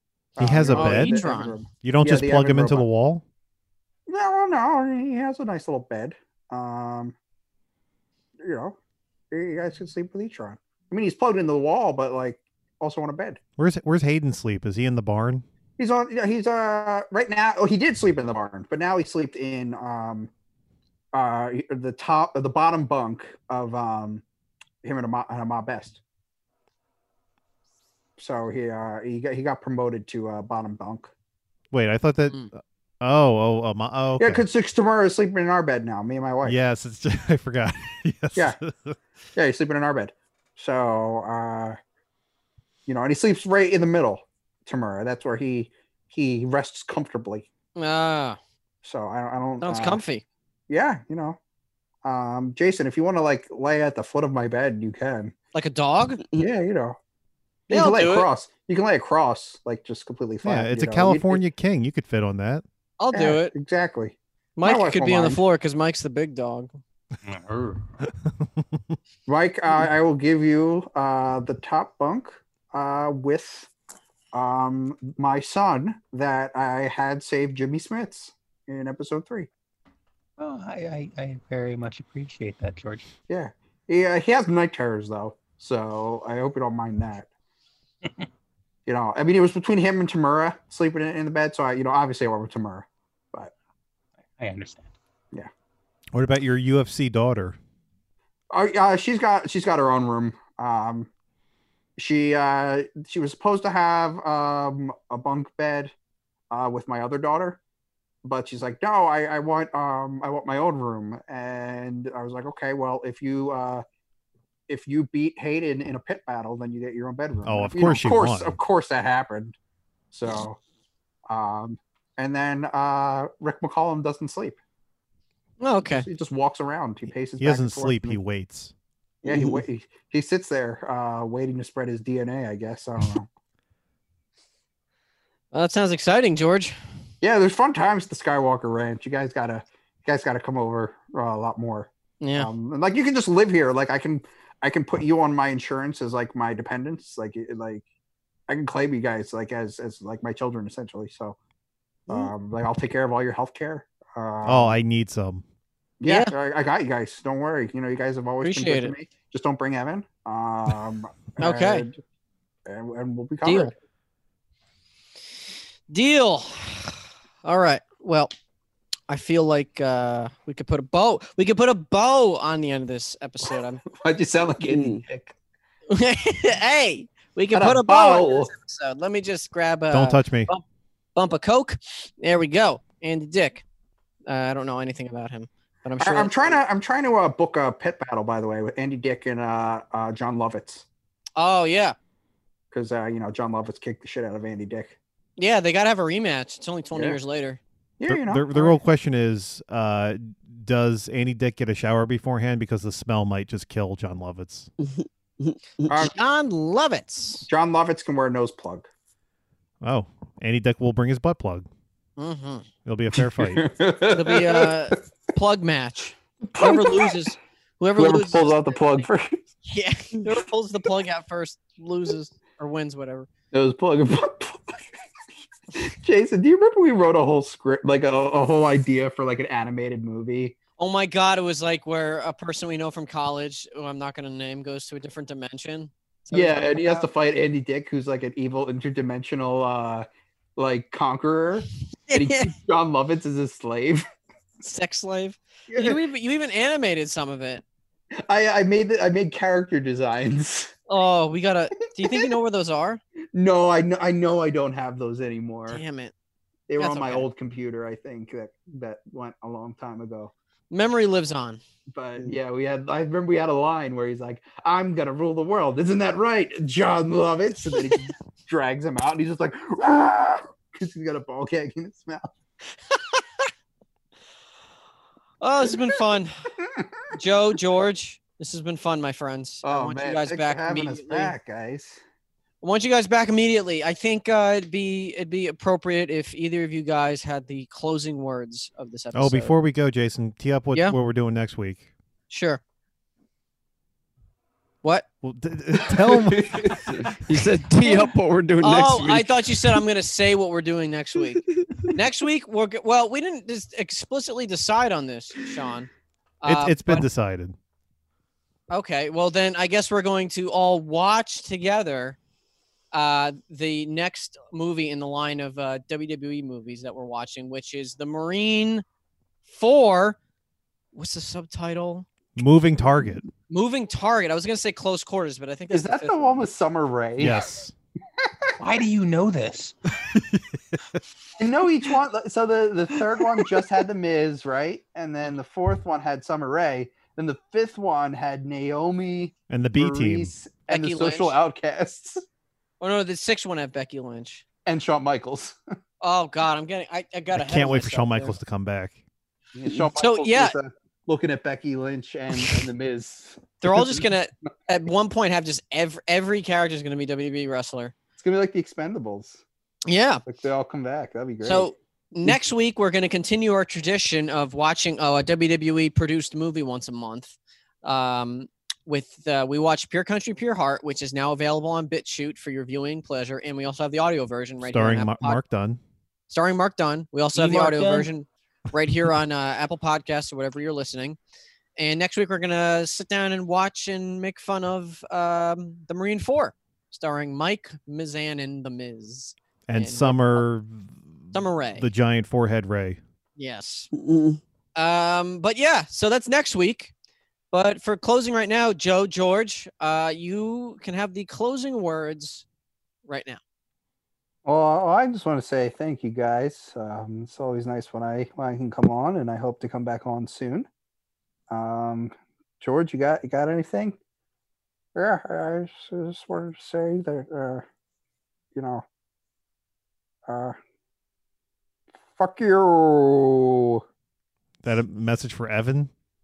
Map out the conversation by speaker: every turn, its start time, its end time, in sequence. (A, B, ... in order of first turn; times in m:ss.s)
0:00.4-0:02.8 A
0:00.4-0:01.2 B
0:00.6-0:01.5 C
0:01.8-0:03.2 B
0:04.1-0:07.1 A
0:08.4-0:08.8 A
0:09.3-0:13.4 A
0:13.6-0:15.4 B
0:15.8-0:20.3 A
0:21.1-0:24.2 A
0:24.8-0:26.0 A
0:28.2-0:31.1 A
0:31.7-0:34.4 B
0:34.2-0:36.6 A
0:36.4-0:39.0 B
0:39.4-0:41.8 A
0:42.9-0:47.5 A
0:47.8-0:48.4 C
0:48.8-0:50.0 A
0:49.6-0:50.2 C
0:50.7-0:51.4 A
0:52.0-0:55.3 A
0:55.5-0:56.2 C
0:56.3-0:57.0 A
0:57.7-1:01.4 A
0:57.7-0:58.3 C
1:00.4-1:02.6 B
1:03.0-1:03.5 C
1:03.1-1:05.4 A
1:04.6-1:06.7 C
1:07.3-1:07.8 D
1:09.3-1:13.7 A
1:14.3-1:19.5 A
1:20.4-1:23.0 D
1:23.3-1:27.3 A
1:28.8-1:33.5 A
1:34.4-1:34.9 D
1:36.1-1:37.6 B
1:38.5-1:41.1 A
1:42.0-1:45.9 A
1:46.5-1:47.6 A
1:48.2-1:53.8 A
1:54.7-1:59.6 A
1:57.4-1:58.6 B
2:00.1-2:00.6 A
2:01.3-2:04.6 A
2:05.6-2:06.1 C
2:05.9-2:08.2 A
2:07.4-2:08.7 B
2:09.2-2:13.3 A
2:09.2-2:09.6 E
2:15.5-2:16.7 C
2:17.2-2:27.8 A
2:22.2-2:22.5 C
2:28.5-2:31.4 A
2:32.1-2:34.7 A
2:34.4-2:35.4 B
2:36.0-2:42.0 A
2:36.0-2:36.3 C
2:38.4-2:38.9 C
2:41.4-2:41.8 C
2:42.6-2:43.7 A
2:43.4-2:43.7 C
2:45.9-2:48.3 C
2:49.1-2:53.8 C
2:53.9-2:55.3 A
2:54.6-2:55.0 E
2:55.9-3:00.6 C
2:57.5-2:58.5 A
2:59.9-3:00.5 B
3:01.1-3:03.6 C
3:04.3-3:06.6 C
3:06.0-3:10.8 A
3:11.4-3:12.0 C
3:12.7-3:15.0 A
3:15.4-3:17.6 C
3:18.0-3:18.8 A
3:18.0-3:24.7 B
3:24.8-3:26.0 E
3:25.9-3:26.1 A
3:26.0-3:27.4 C
3:27.4-3:28.9 A
3:29.8-3:31.7 B
3:32.2-3:32.6 C
3:32.8-3:33.6 B
3:33.1-3:35.0 A
3:34.1-3:39.0 C
3:36.4-3:37.2 A
3:38.0-3:39.4 A
3:39.6-3:43.3 C
3:43.5-3:44.8 A
3:45.7-3:50.6 A
3:50.8-3:57.1 C
3:56.3-4:04.0 A
4:02.1-4:02.5 C
4:04.6-4:07.6 C
4:05.7-4:06.0 A
4:08.2-4:10.7 A
4:10.9-4:13.0 C
4:12.0-4:12.3 A
4:13.3-4:15.8 A
4:15.7-4:16.1 C
4:16.7-4:20.3 A
4:16.8-4:17.3 C
4:20.7-4:21.6 C
4:21.9-4:32.3 A
4:35.4-4:36.5 C
4:36.6-4:36.9 A
4:37.1-4:41.3 C
4:39.6-4:42.0 A
4:42.6-4:49.5 C
4:49.1-4:51.8 B
4:52.3-4:52.6 C
4:55.2-4:56.8 B
4:55.8-4:57.1 A
4:56.7-4:59.8 E
4:58.6-5:05.9 C
5:01.5-5:01.9 E
5:06.4-5:07.0 C
5:06.4-5:07.6 B
5:08.7-5:12.2 C
5:12.9-5:18.8 C
5:19.4-5:20.2 C
5:20.9-5:22.0 C
5:22.4-5:23.3 B
5:23.5-5:26.3 C
5:25.7-5:27.4 A
5:27.2-5:27.7 B
5:28.2-5:28.5 A
5:28.6-5:29.7 D
5:30.0-5:31.0 B
5:31.4-5:42.2 A
5:39.5-5:40.3 B
5:40.7-5:41.4 C
5:42.8-5:44.4 C
5:44.6-5:45.6 A
5:46.0-5:48.3 C
5:47.3-5:49.0 B
5:49.5-5:54.0 A
5:50.0-5:50.5 C
5:53.6-5:57.9 C
5:58.2-5:59.4 A
5:59.9-6:00.2 C
6:00.2-6:01.7 A
6:01.4-6:15.4 C
6:14.6-6:15.8 B
6:16.3-6:21.2 C
6:17.4-6:18.1 D
6:21.8-6:30.4 C
6:29.7-6:33.0 B
6:31.3-6:31.9 C
6:33.4-6:33.9 C
6:33.9-6:34.4 E
6:34.8-6:36.9 C
6:37.5-6:42.4 C
6:43.0-6:43.4 C
6:44.4-6:50.7 A
6:51.5-6:54.0 A
6:54.9-6:57.6 A
6:58.5-6:58.8 A
7:00.3-7:00.6 A
7:02.2-7:03.8 A
7:04.6-7:05.9 B